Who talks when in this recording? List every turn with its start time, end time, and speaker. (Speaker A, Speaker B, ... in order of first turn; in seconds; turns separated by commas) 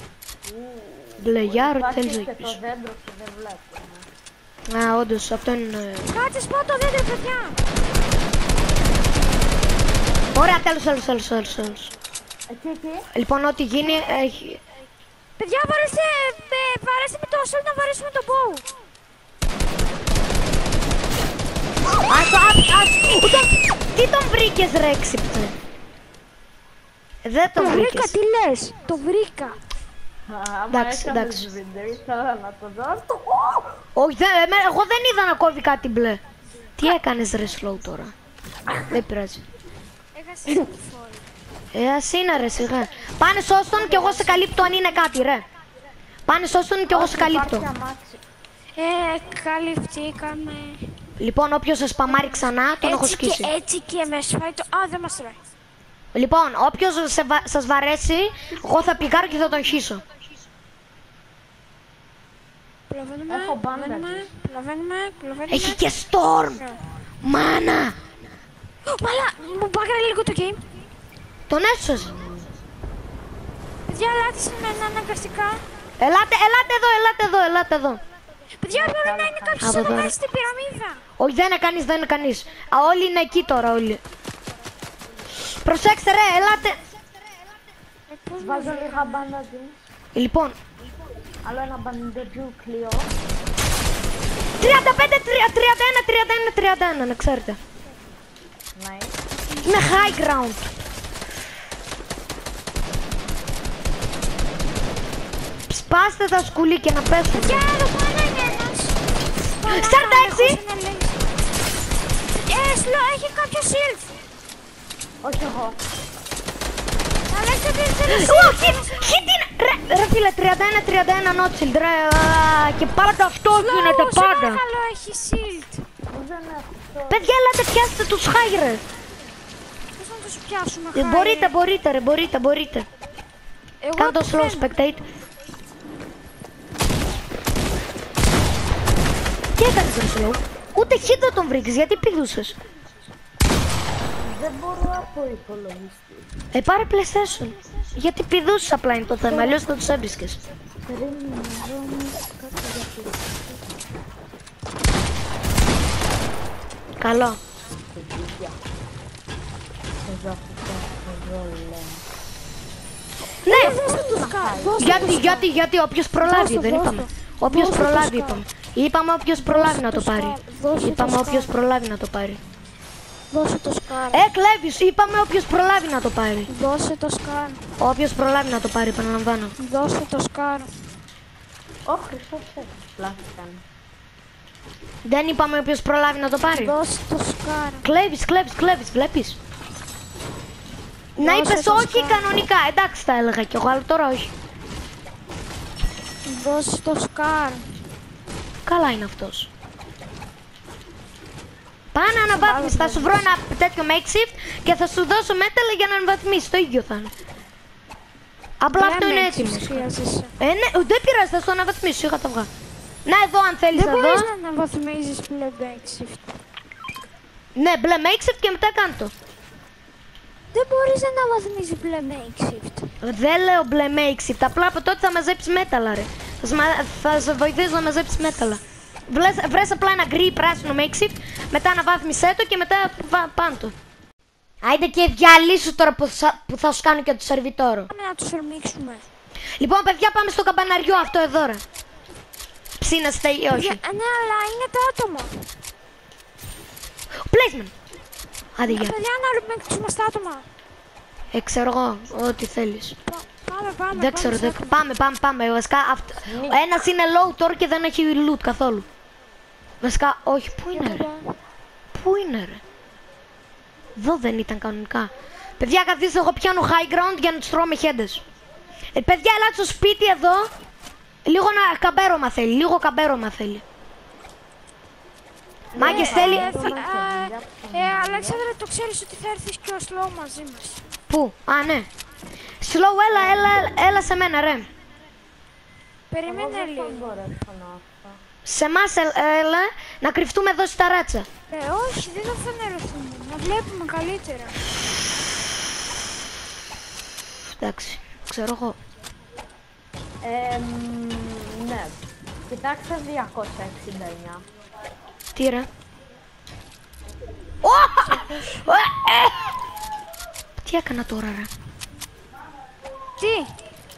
Speaker A: 0.4-4.1, Speaker B: 1.2-2.6, Speaker B: 4.7-6.1, Speaker C: 6.1-7.6, Speaker B: 10.3-11.9, Speaker A: 12.5-13.1, Speaker B: 13.1-14.6, Speaker C: 15.4-18.6, Speaker B: 22.1-25.6, Speaker B: 27.2-28.2, Speaker C: 27.6-29.6, Speaker A: 30.3-33.8, Speaker B: 30.7-31.5, Speaker B: 34.0-36.2, Speaker B: 36.8-38.1, Speaker B: 38.9-39.4, Speaker C: 40.1-41.2, Speaker B: 41.7-45.4, Speaker C: 43.9-44.6, Speaker B: 46.3-47.7, Speaker A: 46.9-48.2, Speaker C: 48.8-50.9, Speaker B: 51.2-53.5, Speaker C: 52.8-55.4, Speaker B: 56.1-60.0, Speaker C: 62.9-65.8, Speaker A: 63.3-64.3, Speaker B: 65.5-66.6, Speaker B: 67.2-68.0, Speaker C: 68.9-70.6, Speaker B: 71.5-72.1, Speaker A: 72.0-72.5, Speaker C: 73.9-75.7, Speaker B: 76.0-78.0, Speaker C: 78.6-81.0, Speaker A: 78.7-79.9, Speaker B: 79.6-80.2, Speaker B: 81.2-84.0, Speaker B: 85.5-86.8, Speaker C: 88.1-89.3, Speaker A: 88.4-89.9, Speaker B: 90.1-90.6, Speaker A: 91.4-93.1, Speaker B: 94.6-97.6, Speaker A: 98.8-99.2, Speaker C: 99.5-100.2, Speaker B: 99.6-100.7, Speaker B: 105.7-107.7, Speaker C: 107.3-109.0, Speaker C: 109.5-111.2, Speaker B: 109.7-110.6, Speaker C: 112.3-114.1, Speaker A: 115.2-115.8, Speaker C: 117.3-119.3, Speaker B: 118.1-124.6, Speaker C: 123.5-125.8, Speaker A: 126.1-127.3, Speaker B: 127.1-128.8, Speaker C: 130.0-131.5, Speaker B: 130.9-132.9, Speaker C: 133.8-134.9, Speaker B: 134.0-135.0, Speaker B: 139.6-142.6, Speaker A: 144.2-146.3, Speaker B: 146.5-150.4, Speaker A: 149.3-149.6, Speaker A: 150.9-153.8, Speaker B: 157.0-157.4, Speaker A: 157.9-158.6, Speaker A: 160.1-162.1, Speaker B: 163.4-163.8, Speaker C: 163.4-165.5, Speaker A: 163.8-165.2, Speaker B: 164.8-172.4, Speaker C: 166.2-168.4, Speaker C: 169.4-171.5, Speaker C: 173.3-174.2, Speaker B: 174.1-176.5, Speaker C: 176.5-177.6, Speaker B: 177.8-179.5, Speaker C: 179.6-180.7, Speaker A: 181.9-183.6, Speaker B: 185.1-186.8, Speaker C: 186.5-187.9, Speaker B: 187.8-189.4, Speaker B: 191.2-194.3, Speaker C: 191.2-192.3, Speaker C: 196.2-197.7, Speaker B: 198.7-199.5, Speaker B: 201.9-207.1, Speaker C: 202.3-203.2, Speaker B: 208.6-209.9, Speaker C: 208.7-210.3, Speaker B: 210.4-212.5, Speaker B: 213.1-214.3, Speaker C: 213.7-216.2, Speaker B: 217.6-219.1, Speaker C: 220.5-222.9, Speaker B: 223.0-233.8, Speaker B: 234.6-237.9, Speaker C: 237.9-239.1, Speaker B: 239.6-241.6, Speaker B: 242.8-243.8, Speaker C: 243.5-245.4, Speaker B: 247.3-247.7, Speaker B: 248.6-248.9, Speaker C: 248.7-250.4, Speaker B: 251.3-253.0, Speaker C: 253.1-254.8, Speaker B: 253.9-258.9, Speaker A: 256.2-256.6, Speaker B: 259.8-261.1, Speaker C: 260.7-261.3, Speaker B: 261.9-262.6, Speaker B: 264.0-268.2, Speaker B: 268.9-270.5, Speaker B: 271.2-273.6, Speaker A: 275.7-278.5, Speaker B: 275.8-276.7, Speaker C: 275.8-280.8, Speaker B: 281.1-281.9, Speaker B: 282.6-284.7, Speaker C: 286.1-287.1, Speaker A: 286.3-288.2, Speaker B: 288.4-291.3, Speaker C: 291.5-294.6, Speaker B: 297.5-298.8, Speaker A: 300.2-302.0, Speaker A: 302.5-304.4, Speaker B: 305.4-305.7, Speaker B: 307.6-309.5, Speaker C: 308.1-308.7, Speaker B: 310.6-311.5, Speaker C: 313.2-313.5